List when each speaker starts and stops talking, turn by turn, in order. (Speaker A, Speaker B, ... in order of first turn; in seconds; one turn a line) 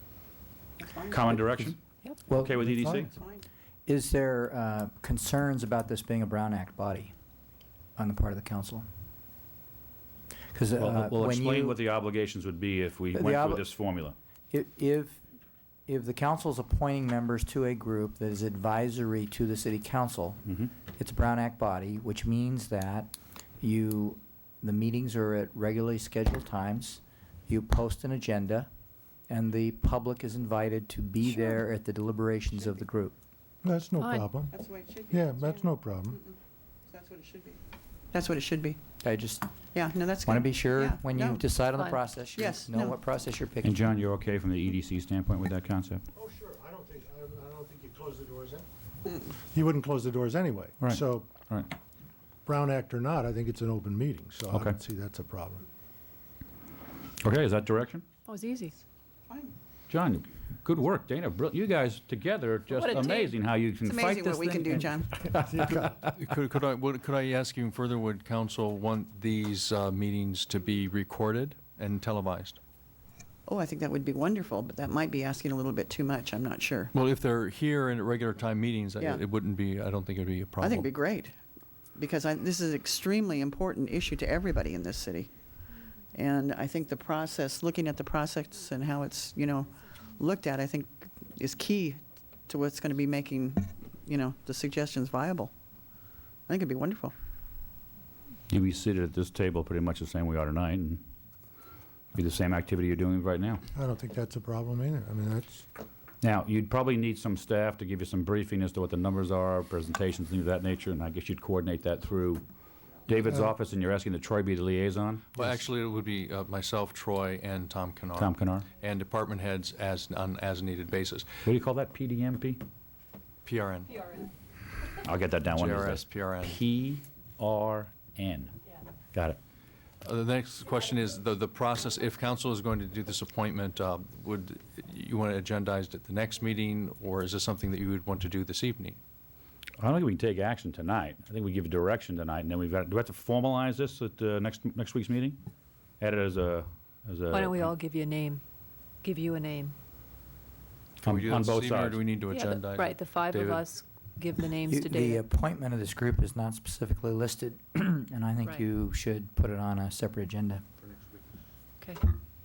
Speaker A: 1.0-3.1
Speaker B: 1.4-1.6
Speaker B: 2.3-3.1
Speaker B: 3.9-7.1
Speaker B: 8.0-8.9
Speaker B: 10.5-11.8
Speaker A: 10.8-14.2
Speaker B: 13.1-13.7
Speaker B: 14.5-15.2
Speaker B: 15.9-28.7
Speaker A: 20.5-20.7
Speaker B: 29.3-33.1
Speaker C: 33.6-34.5
Speaker D: 34.0-34.3
Speaker E: 34.5-35.2
Speaker C: 35.1-36.2
Speaker E: 36.9-37.6
Speaker E: 38.1-38.8
Speaker B: 39.0-39.5
Speaker E: 39.7-41.5
Speaker B: 40.2-43.9
Speaker E: 42.3-43.0
Speaker A: 43.6-46.0
Speaker C: 46.1-48.7
Speaker C: 49.5-51.3
Speaker A: 50.8-51.7
Speaker C: 52.5-55.6
Speaker A: 57.2-58.1
Speaker D: 58.3-58.8
Speaker A: 59.9-65.9
Speaker D: 62.8-63.3
Speaker E: 63.8-65.1
Speaker F: 66.1-72.6
Speaker E: 73.5-76.9
Speaker F: 76.9-80.9
Speaker E: 80.6-81.4
Speaker E: 82.0-85.3
Speaker E: 86.1-95.5
Speaker E: 96.5-97.1
Speaker A: 98.5-101.0
Speaker A: 102.1-103.6
Speaker C: 103.7-105.7
Speaker A: 106.2-112.4
Speaker A: 113.1-115.4
Speaker F: 115.4-121.4
Speaker A: 118.1-118.7
Speaker A: 121.4-122.6
Speaker F: 123.5-124.3
Speaker A: 125.0-128.5
Speaker F: 125.5-126.6
Speaker A: 129.1-129.4
Speaker F: 130.0-139.0
Speaker A: 139.8-145.4
Speaker A: 146.0-147.7
Speaker D: 147.3-148.4
Speaker D: 149.0-149.8
Speaker F: 151.0-153.7
Speaker A: 151.0-152.0
Speaker D: 152.3-155.2
Speaker B: 154.7-160.6